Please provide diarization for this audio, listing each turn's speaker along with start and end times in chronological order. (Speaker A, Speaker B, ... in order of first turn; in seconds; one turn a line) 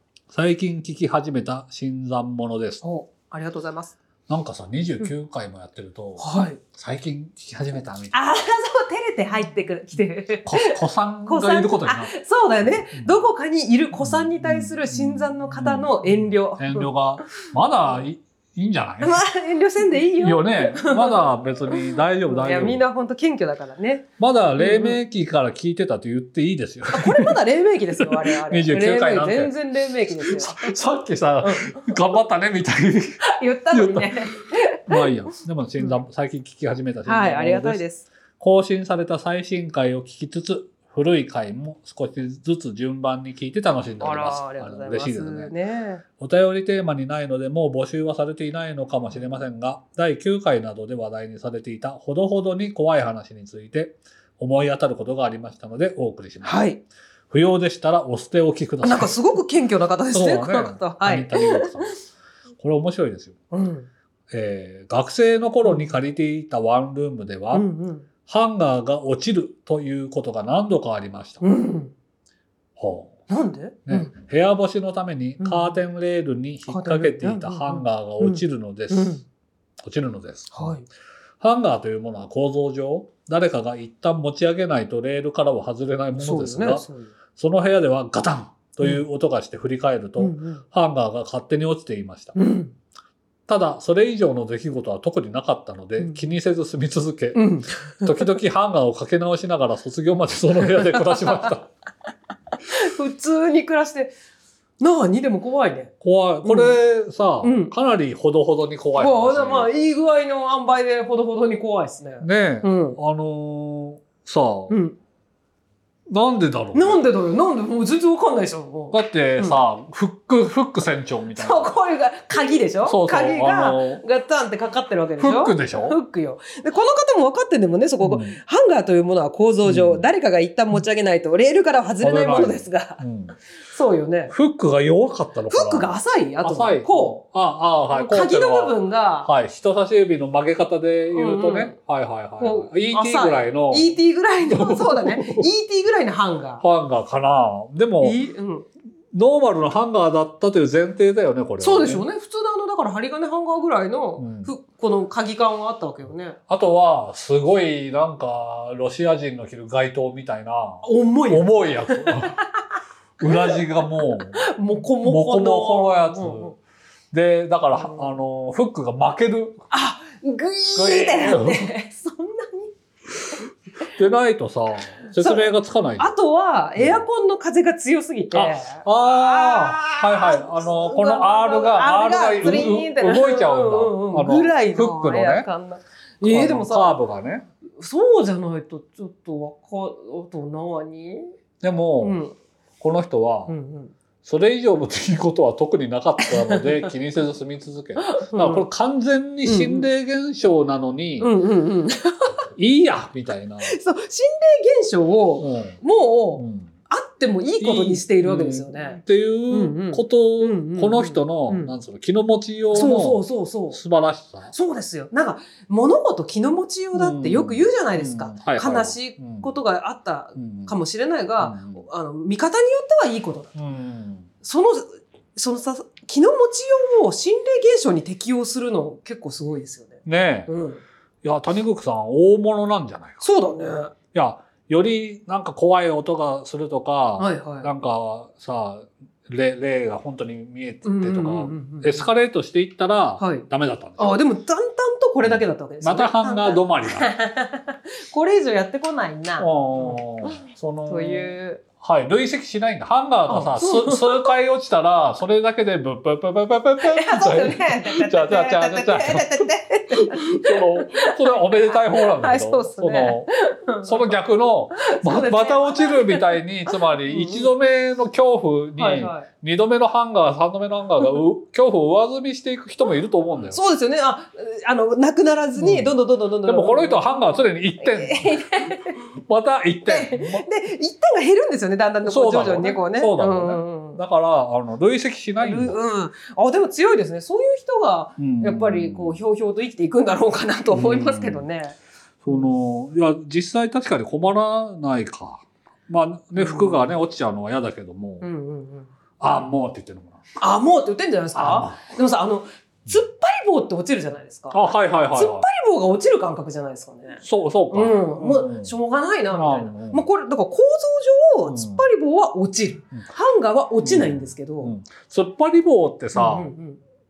Speaker A: 0.3-2.8
Speaker B: 2.8-4.0
Speaker A: 4.3-8.2
Speaker B: 6.2-6.6
Speaker B: 8.1-16.9
Speaker A: 10.4-12.1
Speaker A: 12.9-13.2
Speaker A: 14.0-19.2
Speaker B: 19.0-21.8
Speaker A: 20.2-22.8
Speaker B: 22.3-25.0
Speaker A: 24.2-27.4
Speaker B: 26.9-30.8
Speaker A: 28.0-29.6
Speaker A: 30.2-33.2
Speaker B: 31.4-31.9
Speaker B: 33.2-35.0
Speaker A: 33.7-34.1
Speaker A: 34.9-37.8
Speaker B: 37.1-38.1
Speaker A: 38.4-45.5
Speaker B: 44.0-46.0
Speaker A: 46.2-56.6
Speaker B: 56.4-56.8
Speaker A: 57.3-59.1
Speaker B: 58.8-62.0
Speaker A: 60.1-62.0
Speaker A: 62.6-63.4
Speaker B: 63.5-63.9
Speaker A: 64.3-67.7
Speaker B: 65.6-65.9
Speaker B: 67.5-68.1
Speaker A: 68.3-71.4
Speaker B: 71.4-71.9
Speaker A: 72.8-73.2
Speaker B: 73.3-74.1
Speaker A: 73.9-79.2
Speaker B: 75.4-75.8
Speaker B: 76.7-79.2
Speaker A: 79.8-80.8
Speaker B: 80.5-80.8
Speaker A: 81.4-86.8
Speaker B: 86.2-87.1
Speaker A: 87.4-92.3
Speaker B: 90.2-90.6
Speaker B: 92.3-92.7
Speaker A: 93.5-101.7
Speaker B: 97.3-98.4
Speaker B: 100.8-101.5
Speaker B: 102.7-104.1
Speaker B: 104.8-105.9
Speaker A: 106.0-109.7
Speaker B: 106.4-106.8
Speaker B: 107.4-107.7
Speaker B: 109.0-113.0
Speaker A: 112.2-114.8
Speaker B: 114.7-115.0
Speaker A: 116.1-117.0
Speaker B: 116.7-119.6
Speaker A: 118.9-121.7
Speaker B: 121.4-133.0
Speaker A: 122.8-124.0
Speaker A: 125.2-126.0
Speaker A: 128.0-128.4
Speaker A: 129.6-130.1
Speaker A: 132.0-133.4
Speaker B: 133.6-134.3
Speaker A: 134.3-143.9
Speaker B: 135.5-137.2
Speaker B: 137.9-139.3
Speaker B: 141.1-141.8
Speaker B: 142.4-146.6
Speaker A: 144.5-145.4
Speaker A: 146.6-148.2
Speaker B: 148.0-148.7
Speaker A: 149.1-152.0
Speaker B: 151.6-156.4
Speaker A: 154.2-154.5
Speaker A: 156.5-162.4
Speaker B: 160.8-162.6
Speaker A: 163.2-164.5
Speaker B: 163.2-166.6
Speaker A: 165.0-166.5
Speaker A: 167.1-169.6
Speaker B: 167.8-168.1
Speaker B: 169.7-172.7
Speaker A: 170.8-171.7
Speaker A: 173.8-176.1
Speaker B: 175.2-187.0
Speaker A: 176.8-177.0
Speaker A: 178.3-185.5
Speaker A: 186.2-187.4
Speaker B: 187.8-191.3
Speaker A: 191.6-192.2
Speaker B: 192.0-192.3
Speaker A: 192.8-193.5
Speaker B: 193.5-193.9
Speaker A: 194.2-201.3
Speaker B: 196.2-196.9
Speaker B: 198.0-198.7
Speaker B: 199.4-199.9
Speaker B: 201.2-202.4
Speaker A: 202.5-203.8
Speaker B: 203.6-211.7
Speaker A: 205.4-205.8
Speaker A: 206.4-206.7
Speaker A: 207.6-214.5
Speaker B: 212.7-213.8
Speaker B: 214.5-223.5
Speaker A: 216.9-219.5
Speaker A: 220.4-220.7
Speaker A: 221.4-221.8
Speaker A: 223.6-224.3
Speaker B: 224.4-230.8
Speaker A: 230.1-230.5
Speaker A: 231.2-233.2
Speaker B: 233.2-233.9
Speaker A: 234.1-244.2
Speaker B: 237.2-237.7
Speaker B: 240.8-242.1
Speaker B: 243.2-243.4
Speaker B: 244.0-251.6
Speaker A: 245.2-247.1
Speaker A: 249.4-263.3
Speaker B: 253.3-254.3
Speaker B: 256.9-264.1
Speaker A: 263.8-273.6
Speaker B: 264.8-267.5
Speaker B: 268.8-269.3
Speaker B: 273.5-279.0
Speaker A: 275.6-280.5
Speaker B: 279.9-284.0
Speaker A: 282.1-285.8
Speaker B: 285.4-291.8
Speaker A: 288.2-289.2
Speaker A: 290.7-291.4
Speaker A: 292.2-298.3
Speaker B: 296.4-296.9
Speaker B: 298.2-298.9
Speaker A: 299.2-300.2
Speaker B: 300.4-314.7
Speaker A: 301.3-301.8
Speaker A: 304.5-305.5
Speaker A: 307.2-308.7
Speaker A: 309.3-310.1
Speaker A: 311.5-311.8
Speaker A: 313.8-316.5
Speaker B: 316.1-316.8